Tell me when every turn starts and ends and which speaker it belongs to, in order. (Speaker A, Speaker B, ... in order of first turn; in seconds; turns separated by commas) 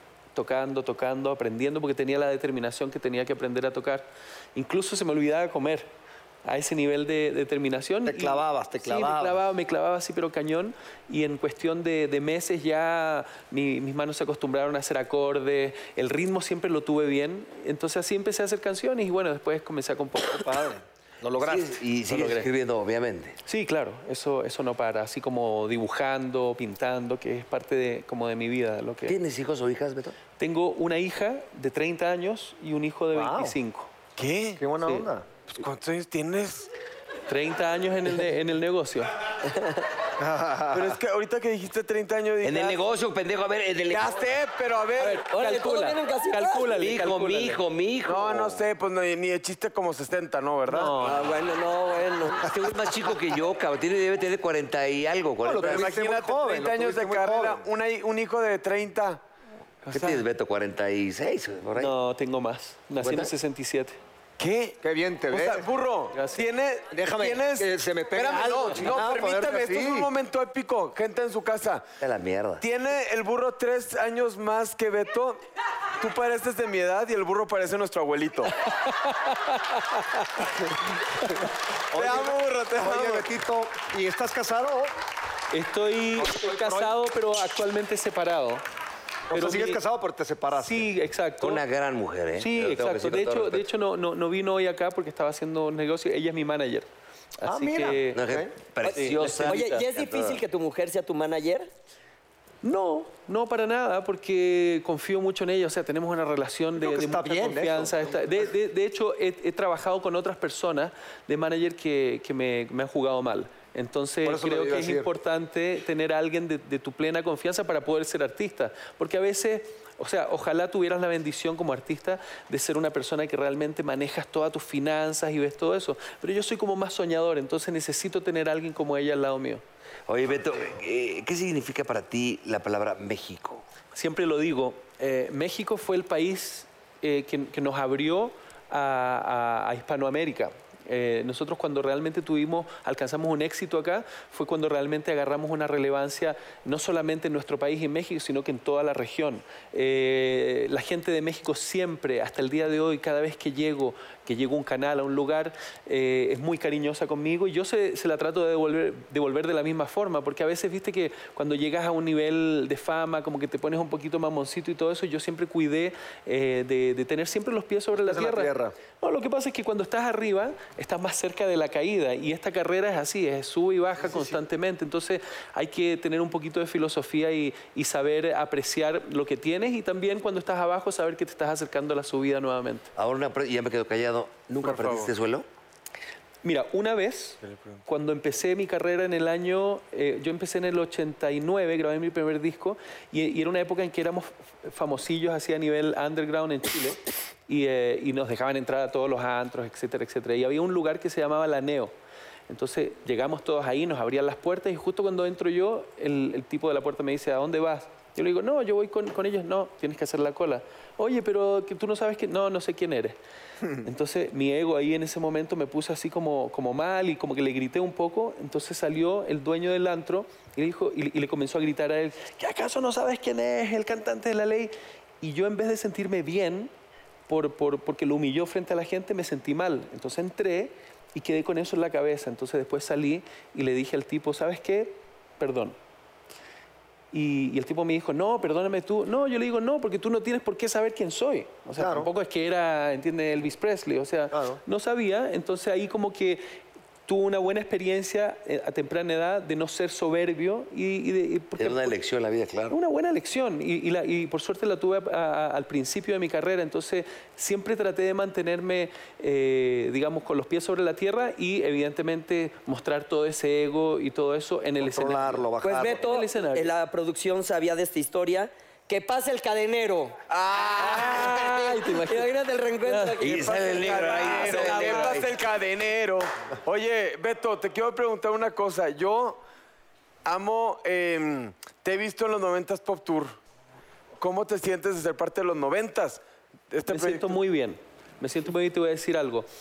Speaker A: 0.3-5.9, Speaker A: 6.4-20.7, Speaker B: 8.1-9.4, Speaker B: 20.3-21.8, Speaker C: 21.4-23.4, Speaker A: 22.1-22.5, Speaker A: 23.4-29.2, Speaker C: 29.1-30.2, Speaker A: 30.4-33.9, Speaker B: 33.1-33.6, Speaker D: 34.2-34.6, Speaker B: 34.6-35.3, Speaker D: 35.5-36.7, Speaker A: 37.3-39.1, Speaker E: 39.5-39.8, Speaker B: 40.2-41.0, Speaker D: 40.7-42.8, Speaker C: 42.4-44.3, Speaker D: 43.9-45.3, Speaker A: 45.0-47.6, Speaker E: 45.3-46.8, Speaker C: 46.8-48.6, Speaker D: 48.1-51.0, Speaker A: 50.7-51.1, Speaker E: 51.0-52.5, Speaker C: 52.4-56.0, Speaker B: 55.4-57.6, Speaker D: 55.6-59.2, Speaker A: 59.9-60.2, Speaker C: 59.9-61.9, Speaker A: 61.8-64.0, Speaker C: 63.0-63.3, Speaker D: 64.4-64.8, Speaker B: 64.8-65.6, Speaker D: 65.3-71.8, Speaker A: 66.1-66.4, Speaker B: 66.9-70.1, Speaker C: 72.0-72.6, Speaker D: 72.6-75.4, Speaker D: 76.0-78.5, Speaker A: 78.8-80.4, Speaker D: 81.9-83.3, Speaker B: 81.9-84.9, Speaker A: 85.5-88.6, Speaker B: 86.2-87.0, Speaker B: 89.3-90.9, Speaker A: 89.3-89.8, Speaker A: 90.6-91.6, Speaker C: 91.4-93.6, Speaker A: 92.4-96.9, Speaker A: 97.4-98.2, Speaker B: 97.4-98.5, Speaker C: 98.1-100.4, Speaker E: 98.8-101.7, Speaker A: 98.9-99.8, Speaker A: 102.6-129.6, Speaker B: 106.8-108.4, Speaker B: 114.2-115.1, Speaker C: 130.1-133.6, Speaker A: 133.9-182.9, Speaker B: 168.0-168.7, Speaker C: 182.9-185.4, Speaker D: 184.6-185.1, Speaker A: 186.4-201.9, Speaker D: 187.4-187.8, Speaker A: 202.5-213.2, Speaker A: 213.8-226.7, Speaker A: 227.3-235.8, Speaker A: 237.1-246.4, Speaker B: 241.8-242.1, Speaker B: 244.3-244.6, Speaker A: 247.1-251.9, Speaker C: 251.6-252.8, Speaker A: 252.7-266.7, Speaker B: 264.8-266.1, Speaker E: 265.6-270.2, Speaker D: 270.3-271.4, Speaker A: 270.8-272.3, Speaker E: 270.8-275.1, Speaker A: 272.8-273.5, Speaker C: 273.2-275.4, Speaker D: 273.4-279.4, Speaker A: 274.3-275.0, Speaker D: 280.2-283.4, Speaker D: 284.2-287.4, Speaker A: 286.9-289.5